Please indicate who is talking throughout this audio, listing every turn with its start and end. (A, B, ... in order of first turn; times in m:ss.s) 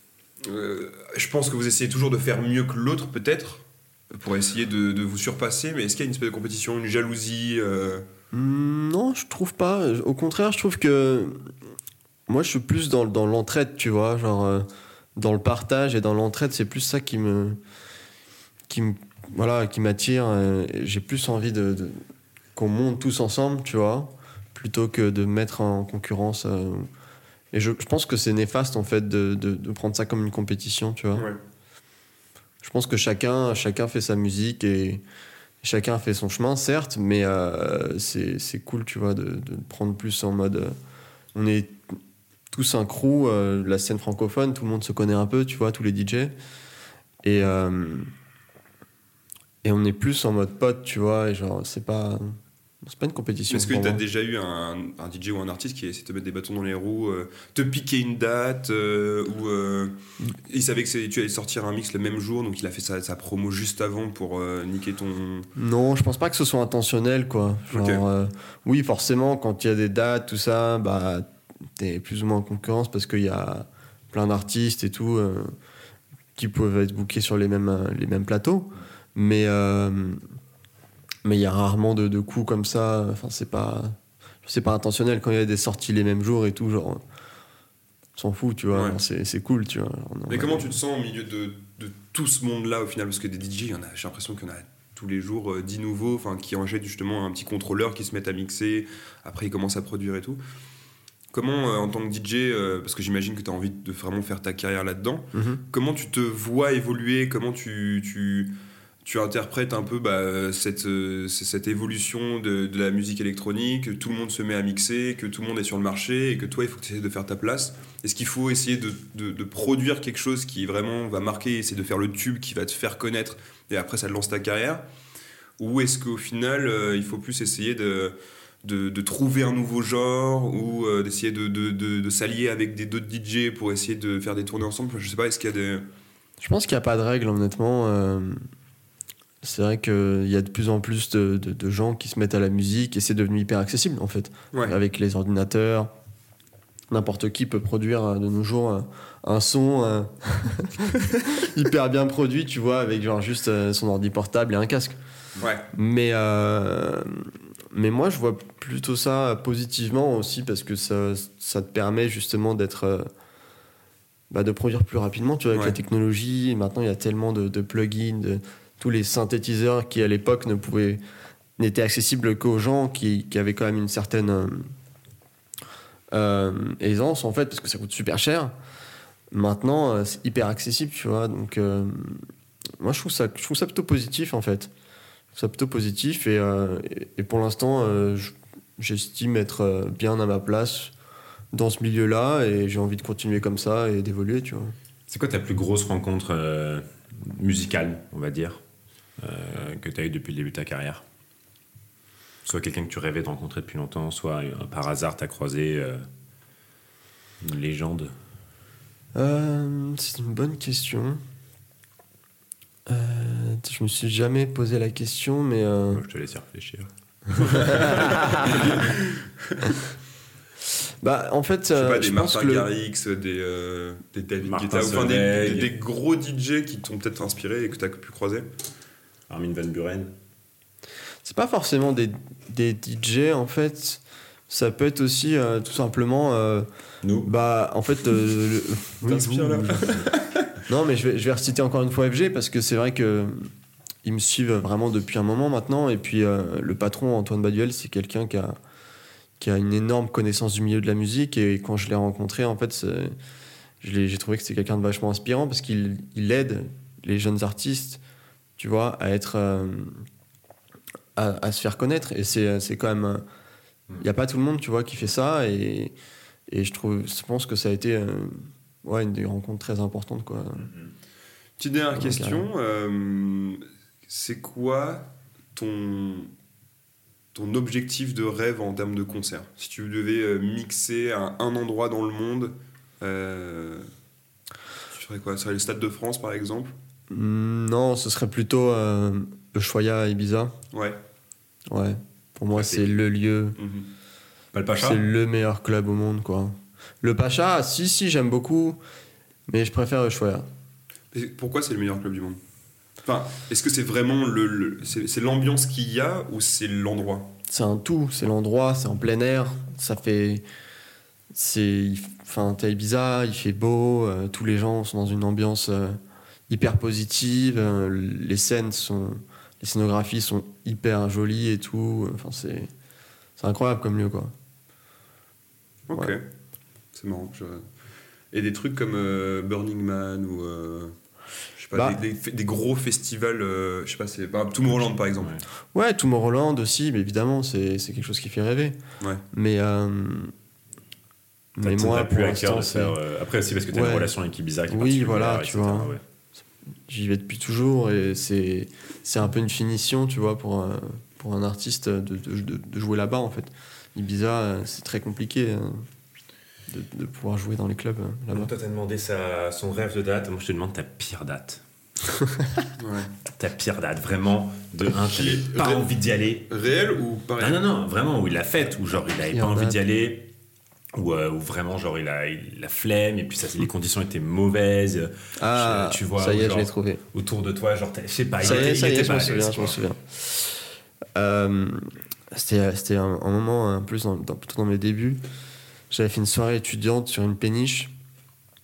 0:00.4-0:08.0 A
0:08.3-0:11.5 B
0:12.3-0:17.6 B
0:18.7-0:22.0 B
0:22.5-0:26.9 B
0:27.5-0:31.3 B
0:31.1-0:31.4 A
0:32.6-0:35.0 B
0:35.6-0:40.7 B
0:41.3-0:42.0 B
0:42.5-0:46.3 B
0:47.2-0:48.1 B
0:49.6-0:54.0 B
0:53.5-1:05.5 A
1:05.6-1:15.5 B
1:07.7-1:08.0 A
1:16.4-1:20.2 B
1:21.2-1:27.0 B
1:28.2-1:30.7 B
1:28.7-1:29.0 A
1:30.3-1:40.4 A
1:41.3-2:04.8 A
1:45.3-1:45.6 B
2:05.6-2:15.8 A
2:16.4-2:18.4 B
2:19.4-2:25.9 B
2:26.9-2:35.0 B
2:35.4-2:35.6 A
2:35.7-2:43.1 B
2:44.3-2:51.0 B
2:51.6-2:54.7 B
2:56.1-2:58.5 B
2:59.3-3:04.7 B
3:05.3-3:10.9 B
3:11.5-3:14.7 B
3:15.1-3:18.6 C
3:19.2-3:21.0 C
3:22.4-3:26.0 C
3:27.4-3:28.1 C
3:29.1-3:31.2 B
3:32.9-3:36.0 B
3:35.9-3:38.9 C
3:37.4-3:39.0 B
3:37.6-3:38.8 A
3:39.4-3:39.7 A
3:41.0-3:42.7 B
3:41.7-3:48.5 A
3:44.4-3:45.7 C
3:49.3-3:50.1 C
3:51.2-3:56.7 B
3:57.0-3:57.3 C
3:57.2-3:59.9 B
3:59.0-4:00.5 A
4:00.7-4:03.5 B
4:04.0-4:08.6 B
4:09.4-4:13.1 B
4:13.8-4:18.0 B
4:18.6-4:20.1 B
4:21.2-4:23.2 B
4:24.0-4:25.9 B
4:26.5-4:30.7 B
4:31.6-4:36.3 A
4:31.9-4:32.4 B
4:37.3-4:43.9 A
4:44.9-4:46.7 A
4:47.1-4:50.6 B
4:50.7-4:51.0 A
4:51.7-4:53.6 B
4:52.5-4:53.0 C
4:53.6-4:53.9 A
4:54.5-4:55.0 C
4:54.8-4:58.8 B
4:59.5-5:00.5 B
5:01.1-5:02.4 A
5:03.0-5:07.3 A
5:07.5-5:10.4 B
5:11.3-5:22.7 B
5:23.4-5:24.3 B
5:25.9-5:26.2 A
5:26.9-5:27.7 A
5:28.3-5:30.9 A
5:31.6-5:35.3 A
5:35.2-5:35.4 C
5:35.7-5:38.8 B
5:39.3-5:40.3 B
5:41.6-5:43.0 B
5:41.6-5:46.0 C
5:43.7-5:44.1 B
5:44.7-5:45.9 B
5:46.9-5:55.8 B
5:56.7-5:58.5 B
5:58.3-6:01.6 C
6:02.8-6:03.1 A
6:03.3-6:06.5 C
6:05.0-6:05.8 A
6:06.5-6:07.6 A
6:07.4-6:10.3 C
6:09.3-6:09.8 B
6:10.9-6:19.8 C
6:15.4-6:17.0 B
6:18.4-6:25.2 B
6:25.9-6:27.9 B